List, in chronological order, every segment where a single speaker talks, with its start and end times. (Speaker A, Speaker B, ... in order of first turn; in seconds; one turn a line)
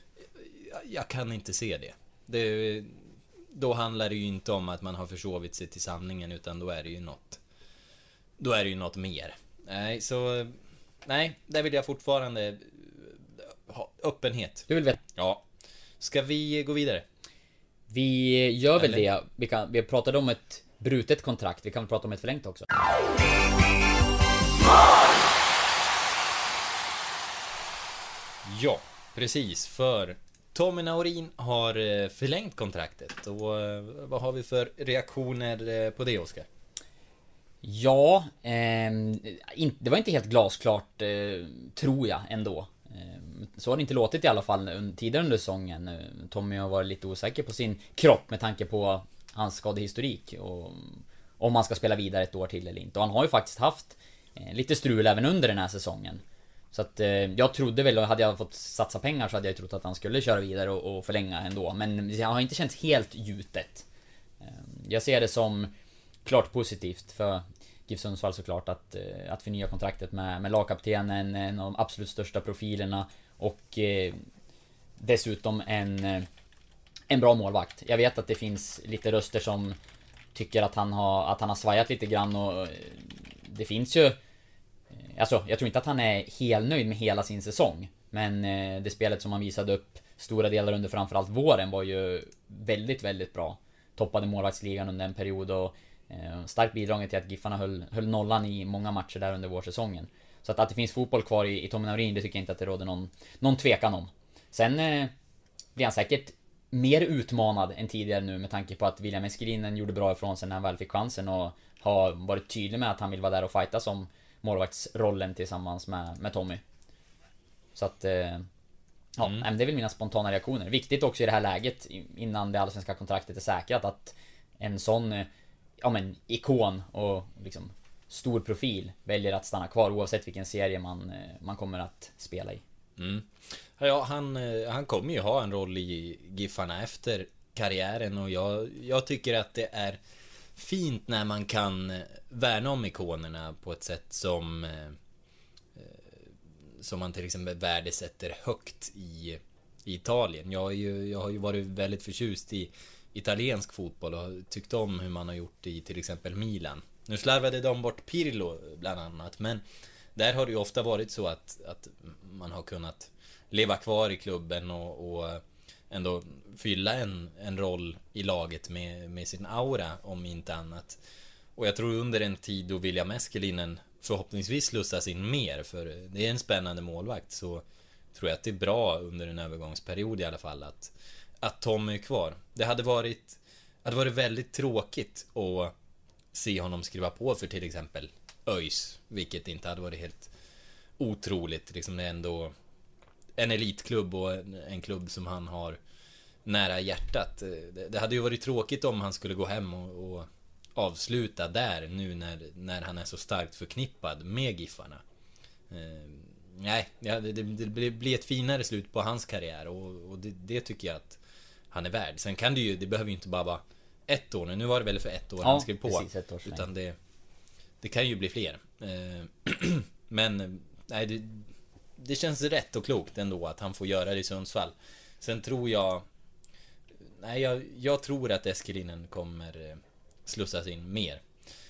Speaker A: 0.3-7.4
Speaker A: 8.4-15.4
Speaker B: 14.7-15.0
Speaker A: 16.0-17.0
Speaker B: 17.9-22.6
Speaker A: 18.8-19.1
Speaker A: 28.4-36.5
Speaker B: 37.6-63.8
Speaker B: 64.4-65.7
Speaker B: 66.2-74.2
Speaker B: 75.0-76.3
Speaker B: 77.1-79.8
Speaker B: 80.3-84.2
Speaker B: 85.1-105.1
Speaker B: 105.8-116.6
Speaker B: 117.8-118.5
Speaker B: 119.2-125.3
Speaker A: 119.2-119.5
Speaker B: 125.8-132.6
Speaker A: 133.0-140.0
Speaker A: 140.6-145.0
Speaker A: 145.7-159.6
Speaker A: 160.2-171.0
Speaker A: 171.6-185.7
Speaker A: 186.3-190.3
Speaker A: 191.0-192.5
Speaker A: 193.3-195.8
Speaker A: 196.4-205.0
Speaker A: 205.7-211.2
Speaker A: 211.7-217.0
Speaker B: 215.4-216.7
Speaker A: 217.8-226.0
Speaker A: 227.0-231.2